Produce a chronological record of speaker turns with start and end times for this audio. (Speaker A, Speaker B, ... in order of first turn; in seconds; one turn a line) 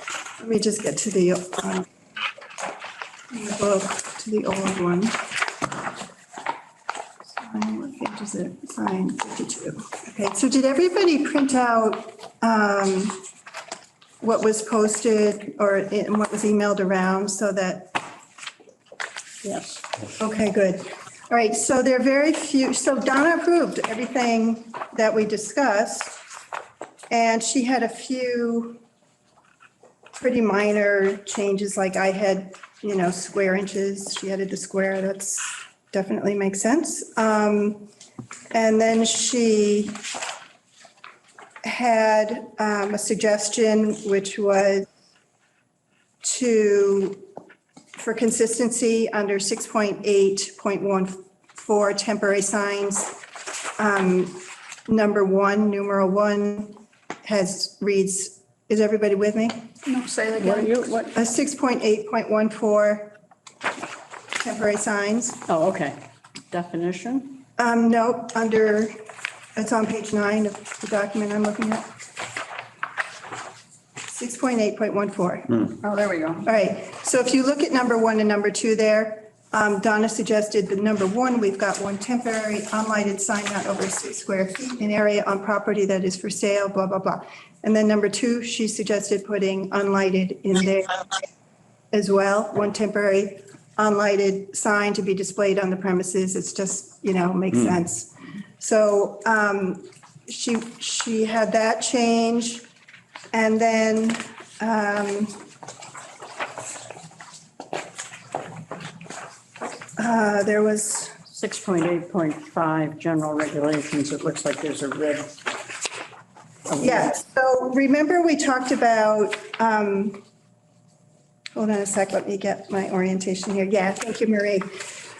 Speaker A: 0.4-1.9
Speaker A: 3.3-5.2
Speaker A: 7.3-13.2
Speaker A: 14.2-18.0
Speaker B: 19.4-19.8
Speaker A: 20.2-26.2
Speaker A: 27.1-28.8
Speaker A: 30.2-37.9
Speaker A: 38.5-40.0
Speaker A: 41.6-44.9
Speaker A: 46.2-47.2
Speaker A: 48.0-53.2
Speaker A: 53.8-59.7
Speaker C: 59.8-61.1
Speaker B: 60.4-61.1
Speaker A: 61.1-63.1
Speaker A: 64.4-65.4
Speaker B: 65.5-66.0
Speaker B: 66.5-67.4
Speaker A: 67.6-68.9
Speaker A: 69.5-71.9
Speaker A: 74.1-75.7
Speaker C: 75.7-76.5
Speaker A: 76.4-91.0
Speaker A: 91.9-102.7
Speaker A: 103.3-105.4
Speaker A: 110.0-111.1
Speaker B: 111.3-115.4
Speaker B: 116.7-117.2
Speaker A: 116.8-120.2
Speaker A: 121.5-124.7